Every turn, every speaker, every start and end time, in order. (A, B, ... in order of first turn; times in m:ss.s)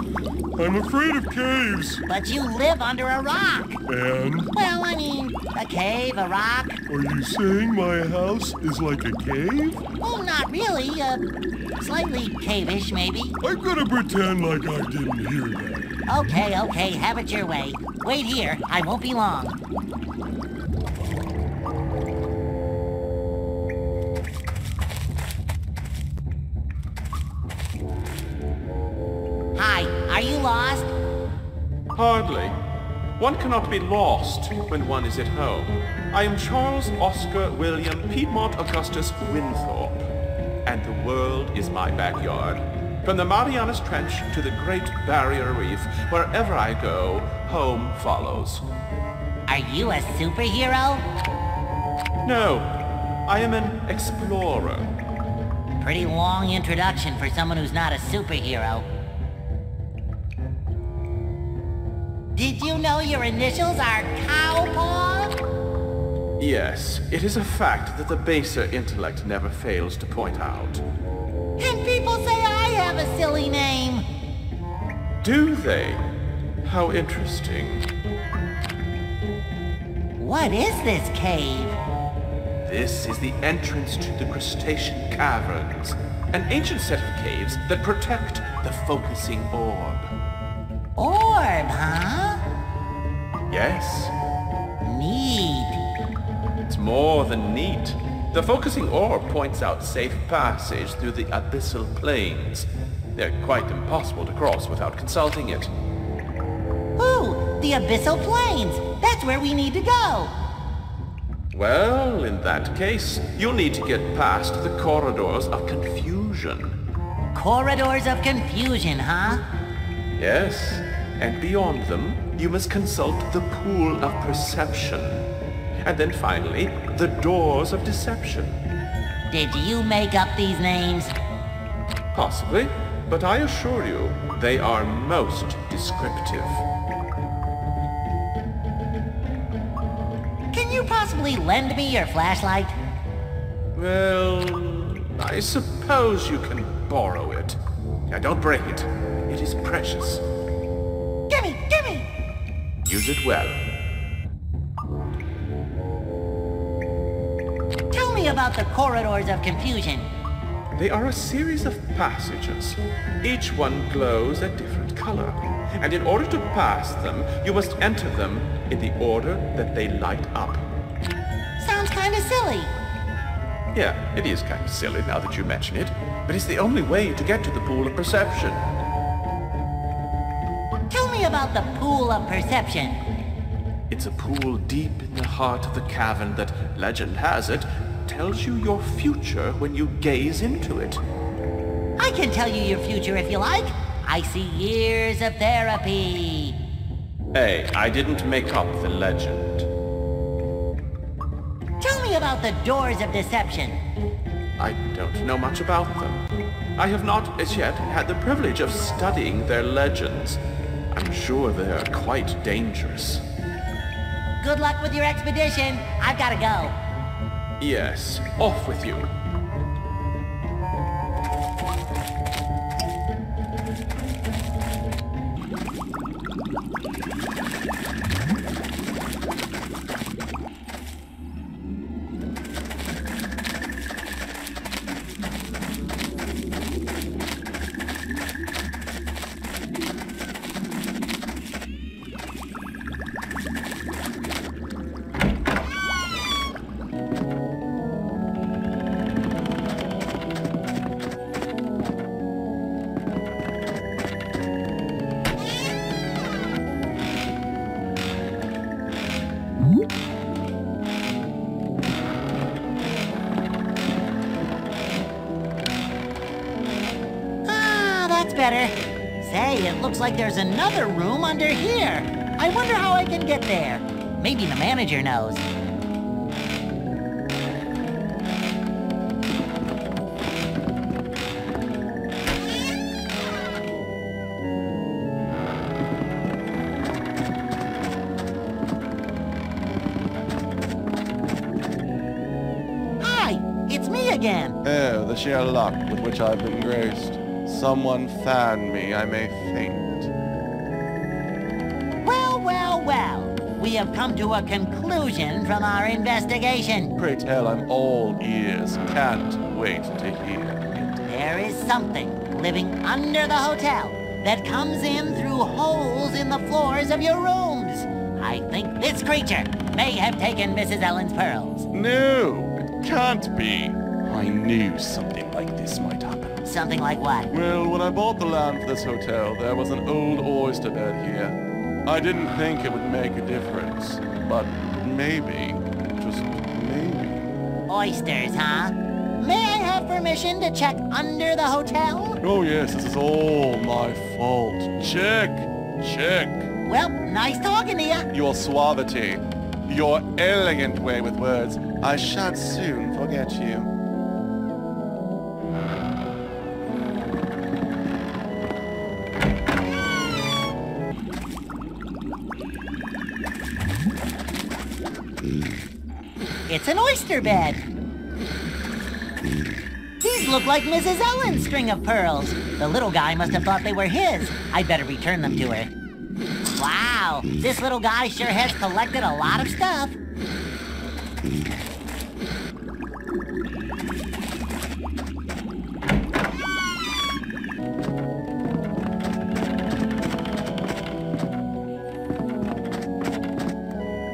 0:00.5-0:02.0 A
0:02.1-0:03.8 B
0:03.9-0:04.5 A
0:04.5-0:06.8 B
0:06.9-0:09.8 A
0:10.0-0:11.2 B
0:11.8-0:13.4 B
0:13.4-0:15.9 A
0:16.1-0:19.6 B
0:29.5-0:30.9 B
0:31.9-0:32.6 C
0:33.2-0:40.1 C
0:40.6-0:48.6 C
0:49.5-0:51.0 B
0:52.2-0:54.9 C
0:55.8-0:58.8 B
1:02.3-1:05.4 B
1:06.4-1:10.8 C
1:11.6-1:14.0 B
1:15.2-1:16.0 C
1:16.6-1:17.8 C
1:20.2-1:21.8 B
1:22.6-1:30.1 C
1:31.0-1:32.4 B
1:33.5-1:34.1 C
1:34.8-1:35.8 B
1:36.7-1:45.7 C
1:47.0-1:50.3 B
1:51.5-1:56.8 C
1:57.3-1:59.4 B
2:00.2-2:05.2 C
2:05.8-2:08.6 C
2:09.3-2:11.1 B
2:12.1-2:16.6 C
2:20.5-2:22.7 B
2:23.8-2:27.6 C
2:28.1-2:30.2 C
2:31.3-2:32.1 B
2:32.8-2:33.6 C
2:37.9-2:40.1 B
2:40.8-2:50.6 C
2:51.6-2:52.7 B
2:53.7-2:58.6 C
3:00.9-3:03.0 B
3:03.9-3:11.0 C
3:12.0-3:16.6 B
3:17.3-3:19.7 C
3:21.8-3:23.8 B
3:24.6-3:30.4 C
3:30.9-3:33.2 C
3:34.4-3:36.8 B
3:37.6-3:39.1 C
4:27.4-4:35.4 B
4:53.0-4:54.6 B
4:54.6-5:00.1 D
5:02.0-5:06.9 B
5:06.9-5:11.0 D
5:11.0-5:21.7 B
5:21.7-5:26.5 D
5:26.4-5:27.3 B
5:27.3-5:37.2 D
5:37.7-5:42.2 B
5:42.2-5:46.5 D
5:46.6-5:48.1 B
5:48.1-5:53.7 D
6:06.5-6:07.6 B
6:10.0-6:15.7 B
6:16.6-6:19.9 B